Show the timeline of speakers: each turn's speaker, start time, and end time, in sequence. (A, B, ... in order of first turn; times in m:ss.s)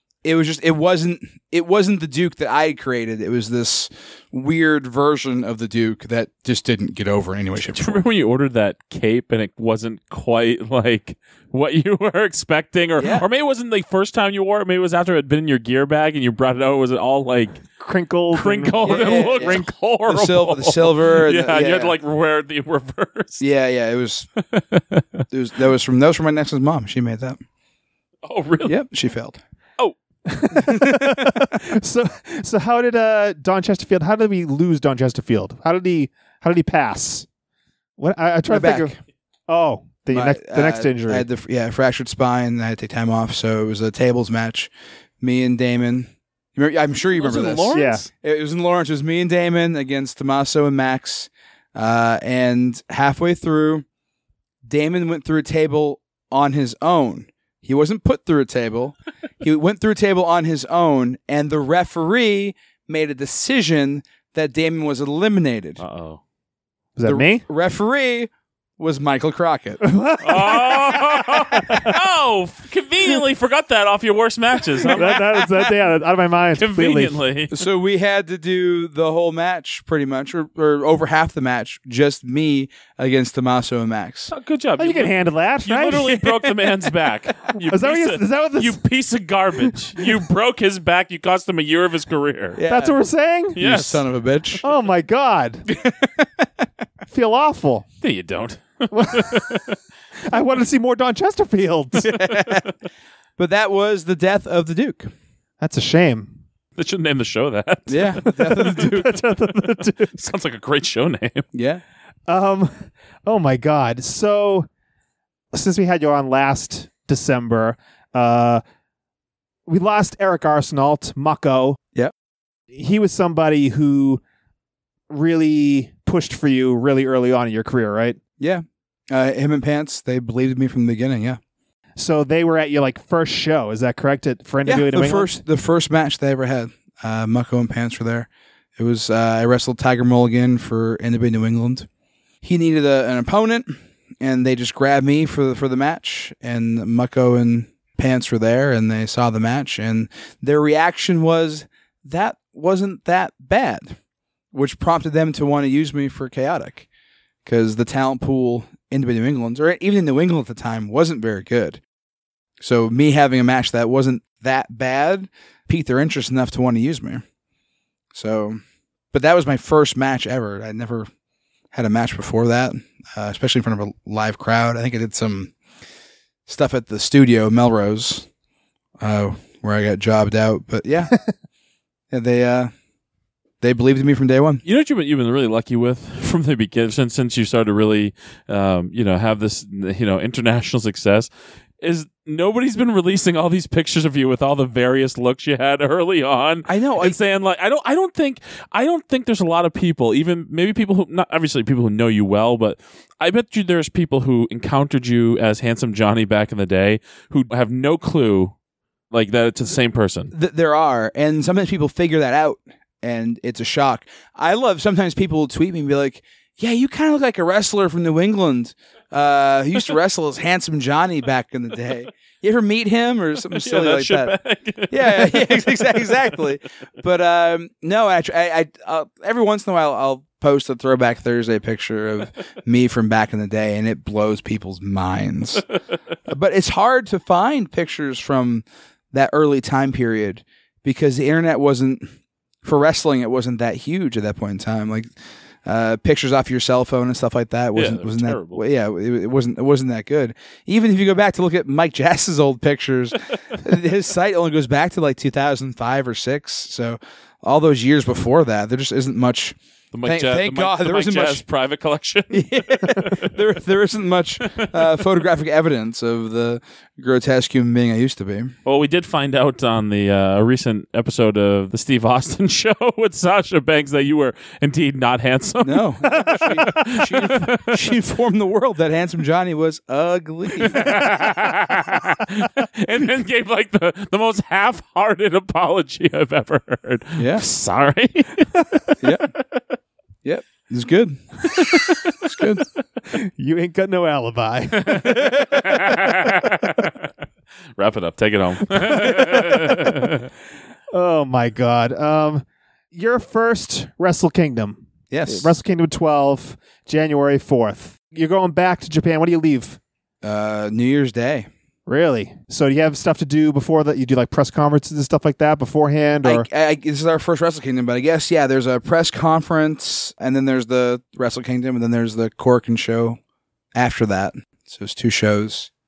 0:00.2-0:08.0 A
0:07.7-0:17.6 B
0:13.0-0:13.3 A
0:17.8-0:19.6 C
0:18.3-0:23.4 B
0:18.8-0:22.0 A
0:23.4-0:24.3 A
0:24.5-0:25.2 B
0:25.3-0:27.4 A
0:28.2-0:28.8 B
0:28.6-0:29.4 A
0:30.3-0:37.2 C
0:30.5-0:31.6 A
0:38.0-0:38.9 C
0:38.5-0:39.0 A
0:39.5-0:41.2 C
0:40.1-0:44.7 A
0:45.2-0:53.8 A
0:47.1-0:48.1 B
0:47.7-0:48.0 C
0:54.6-1:05.8 A
1:05.8-1:06.2 B
1:07.0-1:07.4 C
1:07.0-1:09.8 A
1:09.8-1:11.9 C
1:10.2-1:15.7 B
1:14.9-1:17.2 C
1:16.6-1:17.5 B
1:17.5-1:24.3 A
1:24.3-1:32.6 B
1:24.8-1:26.7 C
1:27.5-1:28.8 C
1:32.6-1:33.0 A
1:32.7-1:33.6 C
1:33.6-1:34.0 B
1:33.6-1:34.6 A
1:34.6-1:35.7 C
1:35.7-1:36.4 A
1:37.1-1:37.8 C
1:38.0-1:39.6 B
1:38.9-1:39.6 C
1:40.3-1:42.0 C
1:42.0-1:42.7 A
1:43.4-1:45.1 A
1:45.6-1:46.4 C
1:46.8-1:48.3 B
1:47.9-1:49.2 A
1:48.2-1:50.2 C
1:50.1-1:51.4 B
1:51.5-1:51.8 A
1:52.3-1:54.7 C
1:55.5-1:58.6 C
1:59.7-2:01.8 C
2:02.7-2:04.2 C
2:05.1-2:08.2 C
2:08.4-2:11.4 A
2:12.0-2:15.3 C
2:14.6-2:21.9 A
2:22.4-2:34.0 A
2:34.5-2:36.9 A
2:37.4-2:41.8 A
2:42.6-2:47.2 A
2:48.1-2:48.6 A
2:49.1-2:51.1 A
2:51.7-2:55.5 A
2:56.4-2:58.3 A
2:59.0-3:01.1 A
3:02.1-3:02.7 A
3:03.6-3:04.6 A
3:04.6-3:28.5 B
3:16.6-3:17.2 A
3:29.1-3:30.3 B
3:30.3-3:44.4 A
3:43.6-3:46.3 B
3:44.9-3:55.6 A
3:56.3-4:02.1 A
4:02.6-4:05.1 A
4:05.6-4:21.4 A
4:07.7-4:08.6 B
4:19.9-4:23.3 B
4:22.3-4:28.5 A
4:24.6-4:24.9 B
4:28.6-4:37.8 B
4:35.6-4:41.0 A
4:36.3-4:36.8 C
4:40.7-4:48.6 B
4:47.2-4:47.4 A
4:49.0-4:49.3 A
4:50.2-4:51.6 A
4:52.2-4:52.6 A
4:53.1-4:55.3 C
4:54.8-4:56.9 B
4:57.8-5:00.3 B
4:58.8-4:59.9 C
5:00.9-5:09.8 C
5:05.1-5:05.5 A
5:10.2-5:11.5 A
5:11.9-5:16.4 C
5:16.2-5:23.2 A
5:23.7-5:25.7 A